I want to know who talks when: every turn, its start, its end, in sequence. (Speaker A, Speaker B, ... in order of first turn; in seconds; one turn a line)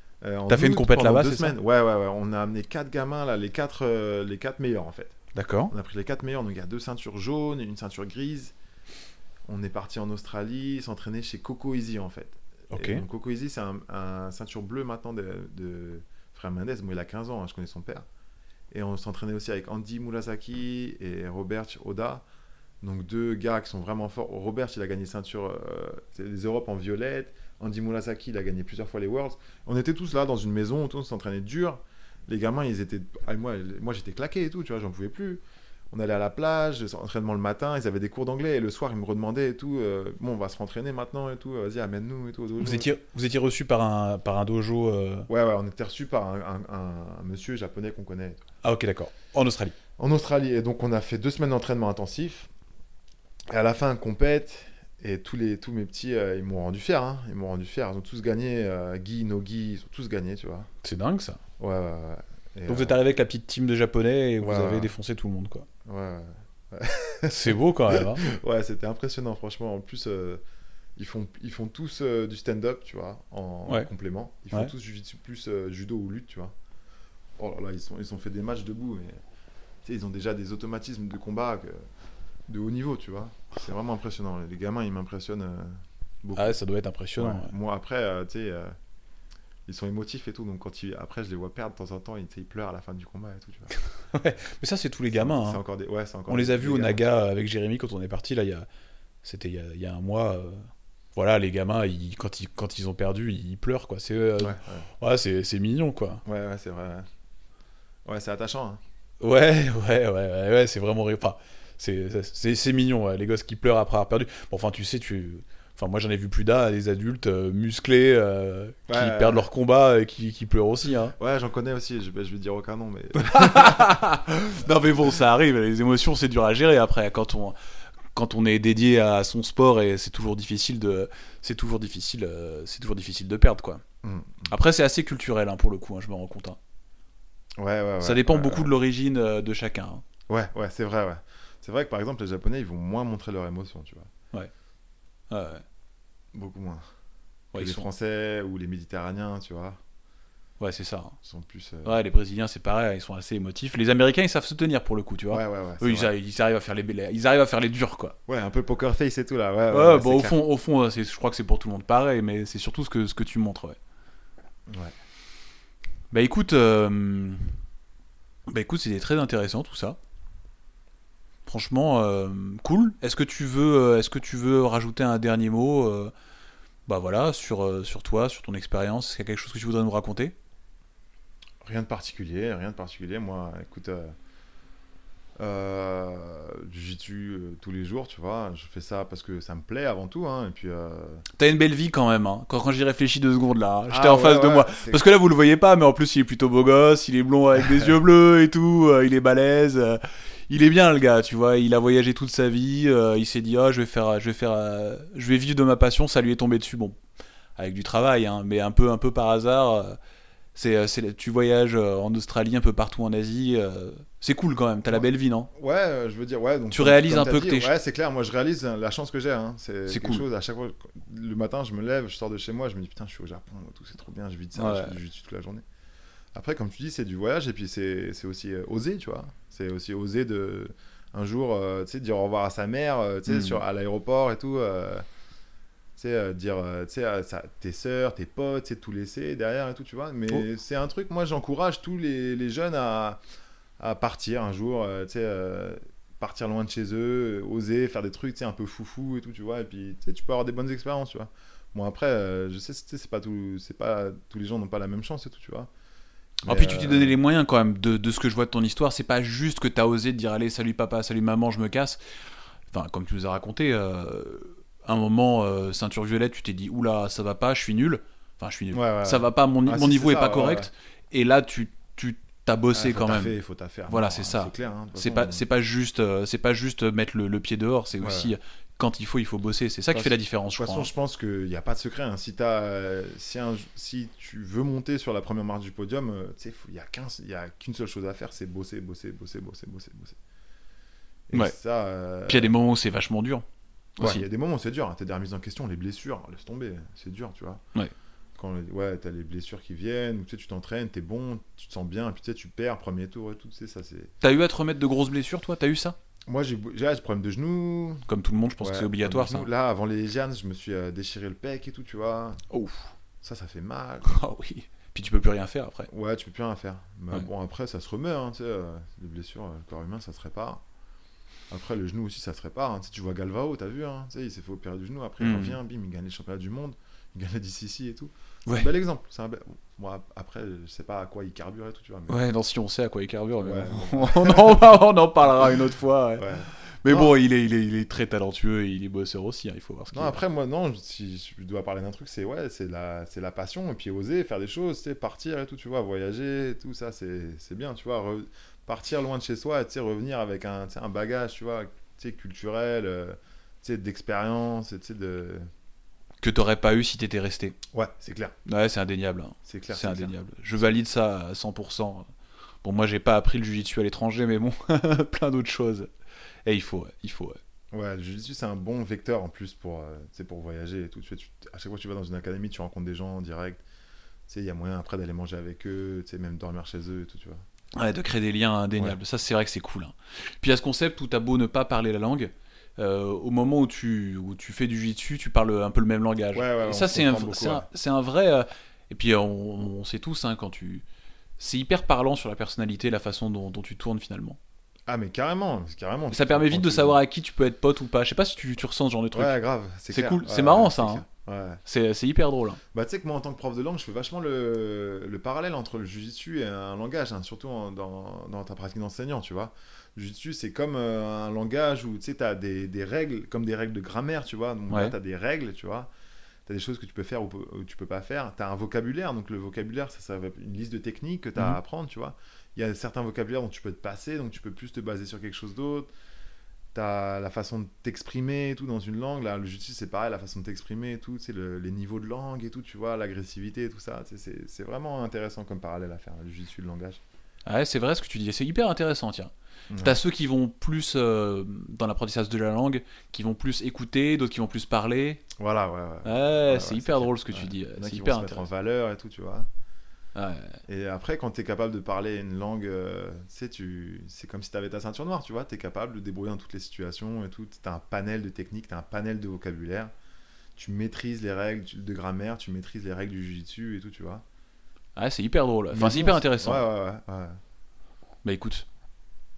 Speaker A: 0.2-5.2
Speaker B: 0.5-1.6
Speaker B: 5.3-5.7
Speaker A: 5.7-8.5
Speaker A: 9.5-18.1
Speaker B: 12.7-13.0
Speaker A: 18.7-22.2
Speaker A: 22.8-42.9
Speaker B: 42.6-45.3
Speaker A: 45.3-48.4
Speaker B: 48.6-49.8
Speaker A: 50.0-52.5
Speaker A: 53.5-60.7
Speaker B: 60.8-61.4
Speaker A: 61.6-63.0
Speaker B: 62.7-65.7
Speaker A: 64.4-64.9
Speaker A: 65.8-70.4
Speaker B: 67.3-68.2
Speaker A: 71.0-76.5
Speaker A: 77.4-79.2
Speaker A: 79.8-81.8
Speaker A: 82.5-86.6
Speaker B: 86.3-87.5
Speaker A: 87.2-88.7
Speaker A: 89.7-93.7
Speaker B: 94.1-95.6
Speaker A: 95.2-97.0
Speaker B: 96.3-98.7
Speaker B: 99.2-106.2
Speaker A: 104.4-104.9
Speaker A: 106.2-107.1
Speaker A: 108.0-108.8
Speaker B: 109.2-121.1
Speaker A: 118.9-119.5
Speaker A: 121.2-124.0
Speaker B: 123.2-127.5
Speaker B: 128.1-133.8
Speaker A: 134.0-134.5
Speaker B: 134.5-136.6
Speaker A: 137.6-138.7
Speaker B: 138.0-140.0
Speaker A: 140.3-144.1
Speaker B: 145.3-145.6
Speaker A: 146.3-146.8
Speaker B: 147.5-147.8
Speaker A: 147.5-149.8
Speaker B: 150.6-151.2
Speaker A: 151.2-151.9
Speaker B: 151.8-158.2
Speaker A: 155.3-156.1
Speaker A: 158.3-160.4
Speaker B: 159.7-163.8
Speaker A: 164.7-164.9
Speaker B: 166.1-167.5
Speaker B: 168.5-170.0
Speaker B: 171.4-176.1
Speaker B: 176.9-180.3
Speaker A: 181.6-184.1
Speaker A: 185.4-191.2
Speaker B: 191.3-207.0
Speaker A: 193.9-195.0
Speaker B: 207.6-210.0
Speaker B: 210.5-215.5
Speaker A: 214.9-225.6
Speaker B: 216.7-217.7
Speaker B: 219.9-220.2
Speaker B: 224.5-224.9
Speaker A: 226.3-235.0
Speaker B: 233.3-233.6
Speaker A: 236.0-243.2
Speaker A: 243.8-255.7
Speaker A: 256.4-257.1
Speaker B: 256.5-262.0
Speaker B: 262.7-273.3
Speaker A: 268.7-270.7
Speaker A: 272.7-275.4
Speaker B: 273.9-280.9
Speaker A: 278.0-278.3
Speaker A: 279.9-290.2
Speaker A: 291.3-292.5
Speaker B: 292.3-293.4
Speaker B: 294.0-294.2
Speaker A: 294.0-297.6
Speaker A: 298.4-304.1
Speaker B: 304.2-306.0
Speaker A: 306.3-308.1
Speaker B: 308.1-309.5
Speaker A: 308.6-312.4
Speaker B: 312.5-312.9
Speaker A: 313.2-314.1
Speaker B: 314.0-315.9
Speaker A: 315.9-320.6
Speaker A: 321.5-332.2
Speaker B: 325.2-325.6
Speaker B: 332.1-336.3
Speaker A: 333.4-334.6
Speaker A: 336.2-337.1
Speaker B: 336.8-340.2
Speaker A: 339.9-355.5
Speaker B: 356.2-357.6
Speaker A: 357.7-358.3
Speaker B: 358.4-362.1
Speaker A: 359.4-360.1
Speaker B: 362.6-365.9
Speaker B: 366.4-367.4
Speaker A: 367.7-373.6
Speaker A: 374.3-377.4
Speaker B: 377.8-390.8
Speaker A: 386.3-387.7
Speaker B: 391.4-394.4
Speaker A: 394.9-397.0
Speaker B: 396.1-399.3
Speaker A: 399.1-401.6
Speaker B: 399.9-401.0
Speaker B: 401.6-402.6
Speaker A: 402.7-415.9
Speaker B: 414.7-414.9
Speaker A: 416.4-425.9
Speaker A: 426.7-437.0
Speaker B: 437.4-445.2
Speaker A: 439.7-440.0
Speaker A: 445.4-449.5
Speaker B: 446.0-448.4
Speaker B: 450.1-450.6
Speaker A: 450.7-459.9
Speaker A: 460.6-464.2
Speaker B: 464.9-466.6
Speaker A: 465.7-467.4
Speaker B: 468.2-468.6